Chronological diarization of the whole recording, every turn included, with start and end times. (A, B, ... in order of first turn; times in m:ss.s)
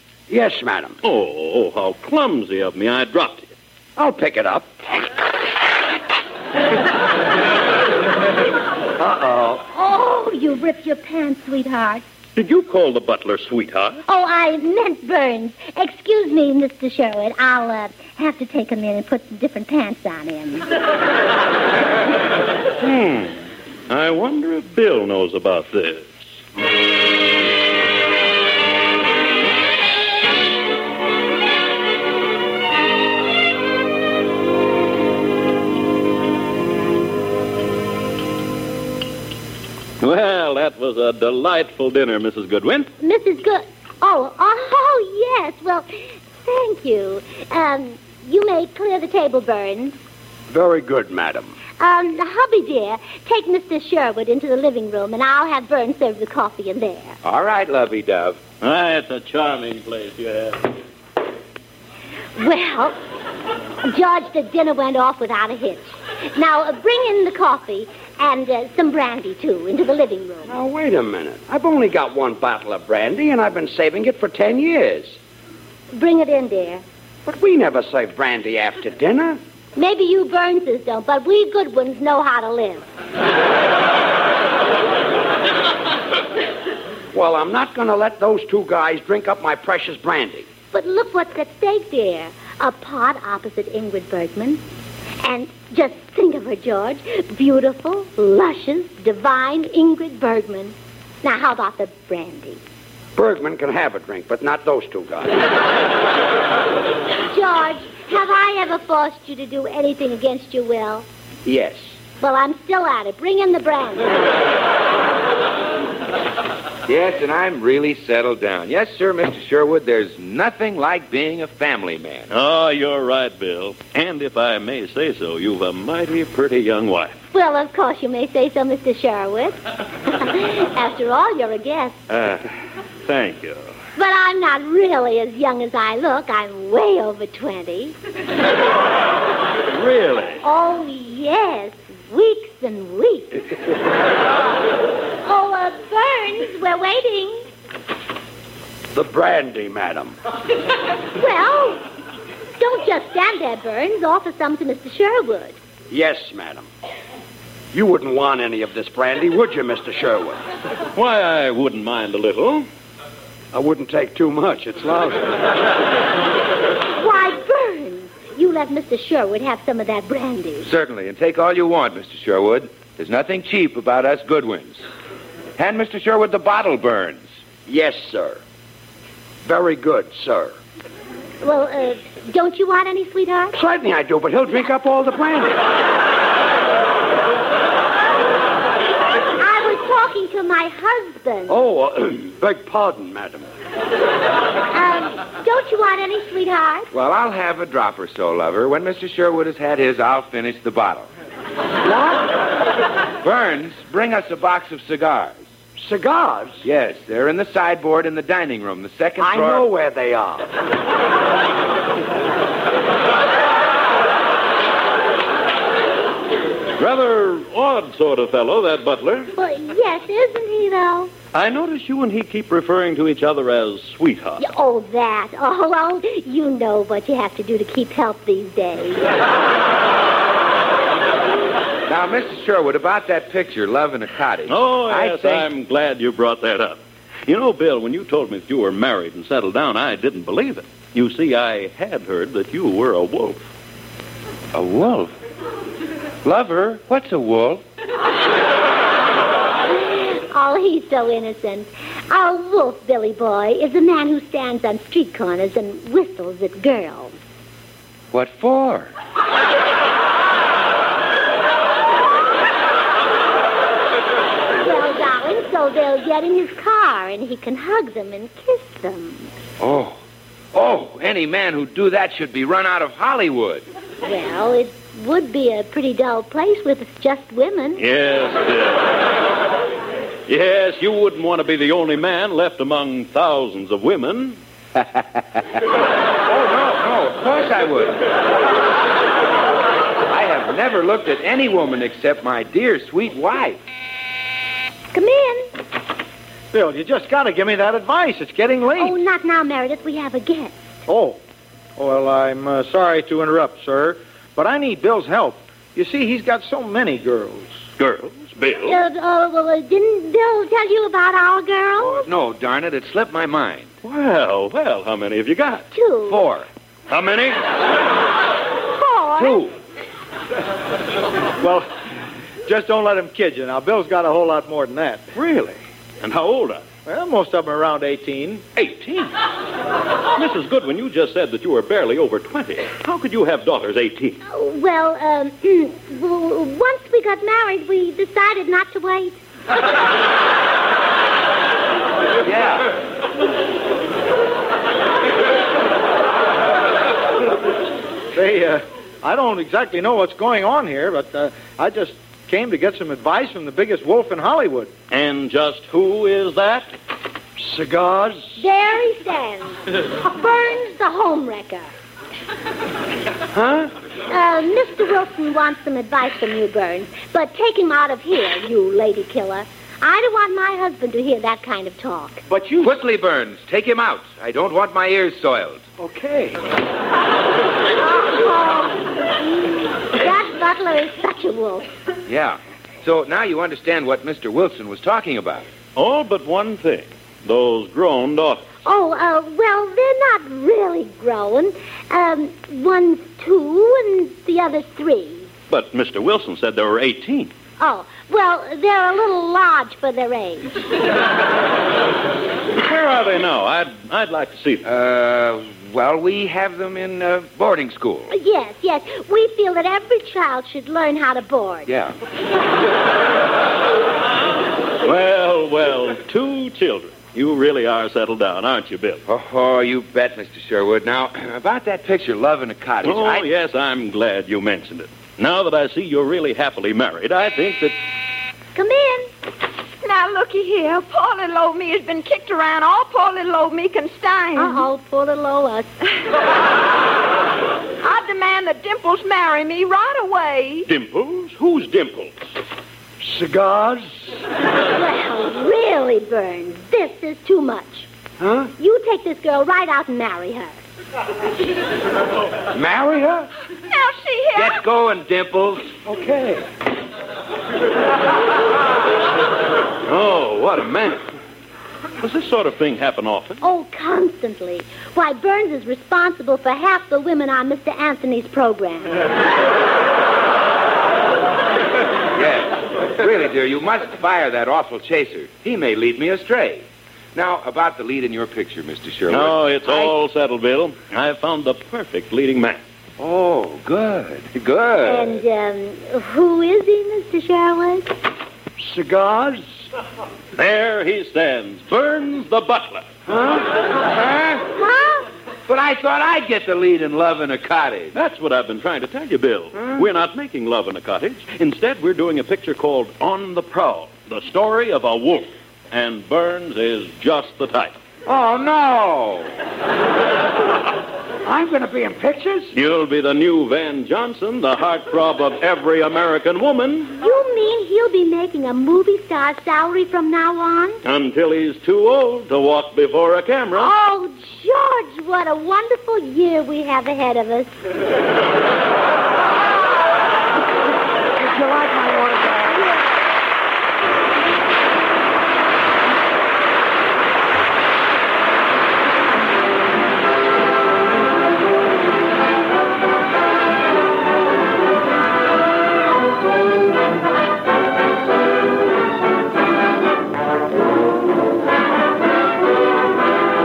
0:00.3-0:01.0 A
0:01.0-0:03.5 B
0:04.0-0:04.8 A
0:09.0-0:09.6 A
0:09.6-0:12.0 C
0:12.4-0:14.0 B
0:14.1-0:20.7 C
0:22.8-0:26.3 B
0:40.0-0:42.9 B
0:43.0-0:45.9 C
0:46.4-0:50.0 C
0:50.5-0:51.6 A
0:51.8-0:57.2 C
0:57.2-0:58.4 D
0:58.6-1:00.7 B
1:02.4-1:03.0 C
1:03.8-1:10.5 C
1:10.5-1:15.2 A
1:15.9-1:16.8 C
1:17.3-1:19.4 A
1:19.8-1:22.8 C
1:27.1-1:30.5 A
1:30.7-1:34.6 C
1:35.2-1:42.6 C
1:43.2-1:45.4 A
1:47.3-1:51.1 C
1:51.5-1:51.8 A
1:52.2-1:54.2 C
1:56.9-2:02.3 D
2:02.3-2:07.3 B
2:07.3-2:12.0 C
2:12.1-2:12.4 B
2:13.0-2:13.8 B
2:14.0-2:18.0 C
2:19.7-2:20.4 B
2:20.4-2:23.4 C
2:25.2-2:27.5 C
2:28.9-2:30.2 A
2:31.2-2:31.8 C
2:32.6-2:35.6 C
2:35.9-2:36.7 A
2:37.7-2:40.4 A
2:40.9-2:42.7 B
2:43.5-2:45.4 A
2:46.9-2:50.7 C
2:50.6-2:54.8 D
2:55.6-2:57.3 D
2:57.7-2:58.4 A
2:59.4-3:00.6 A
3:01.4-3:03.6 C
3:03.5-3:05.6 A
3:09.4-3:11.6 C
3:11.5-3:13.5 A
3:14.7-3:16.9 C
3:16.9-3:21.1 D
3:21.8-3:22.3 A
3:23.2-3:25.4 D
3:25.8-3:26.6 A
3:26.6-3:29.7 D
3:29.2-3:30.5 A
3:36.8-3:39.3 B
3:39.4-3:41.1 C
3:41.3-3:44.4 B
3:44.4-3:49.1 C
3:51.9-3:55.5 D
3:54.5-4:03.4 B
4:04.5-4:05.1 D
4:06.2-4:07.6 D
4:09.7-4:17.1 C
4:18.1-4:18.9 D
4:24.5-4:29.3 C
4:29.6-4:30.0 D
4:30.5-4:33.6 D
4:34.0-4:37.8 C
4:37.8-4:39.0 B
4:40.3-4:44.4 B
4:46.3-4:48.0 D
4:50.1-4:53.6 D
4:54.9-4:55.5 C
4:56.5-4:58.9 E
4:58.8-5:00.6 C
5:00.9-5:01.2 E
5:01.8-5:07.6 E
5:07.8-5:08.8 B
5:08.5-5:12.0 C
5:11.8-5:13.7 D
5:13.8-5:15.7 B
5:15.7-5:16.3 C
5:16.0-5:16.5 D
5:16.9-5:17.5 B
5:18.8-5:19.4 C
5:19.2-5:19.5 D
5:21.4-5:21.7 E
5:22.4-5:25.1 E
5:25.2-5:25.5 D
5:26.0-5:26.7 B
5:26.8-5:28.4 E
5:28.6-5:29.1 B
5:30.1-5:34.2 B
5:34.3-5:39.2 C
5:42.2-5:42.7 D
5:48.1-5:54.7 E
5:54.9-5:56.7 B
5:57.4-5:58.4 A
5:58.4-6:01.7 C
6:03.4-6:03.7 D
6:04.1-6:12.2 C
6:12.3-6:12.7 E
6:12.6-6:15.7 D
6:17.8-6:21.7 C
6:22.1-6:25.5 D
6:25.8-6:28.5 B
6:28.6-6:35.3 C
6:35.5-6:37.3 B
6:37.6-6:40.6 C
6:42.6-6:44.6 B
6:44.6-6:48.1 D
6:48.1-6:51.7 C
6:51.7-6:51.9 D
6:54.8-6:59.0 B
6:59.1-7:03.3 D
7:02.8-7:07.8 B
7:08.6-7:09.1 C
7:09.8-7:14.7 F
7:14.4-7:15.7 C
7:17.8-7:20.7 F
7:20.7-7:22.2 B
7:23.0-7:24.1 A
7:24.7-7:27.9 C
7:28.6-7:30.6 C
7:32.5-7:33.3 D
7:33.7-7:34.5 F
7:34.4-7:36.4 D
7:39.8-7:41.0 B
7:42.0-7:43.4 B
7:43.4-7:49.0 C
7:52.1-7:59.9 D
7:59.1-8:02.6 B
8:03.0-8:05.2 D
8:04.8-8:07.9 C
8:08.6-8:09.6 A
8:10.4-8:12.9 B
8:13.1-8:14.5 D
8:14.5-8:15.1 C
8:15.5-8:18.0 D
8:18.0-8:27.8 B
8:19.6-8:19.9 D
8:28.1-8:29.3 D
8:31.2-8:32.5 A
8:32.6-8:37.0 B
8:36.9-8:40.8 C
8:40.8-8:43.7 B
8:43.6-8:47.5 C
8:51.2-8:52.6 A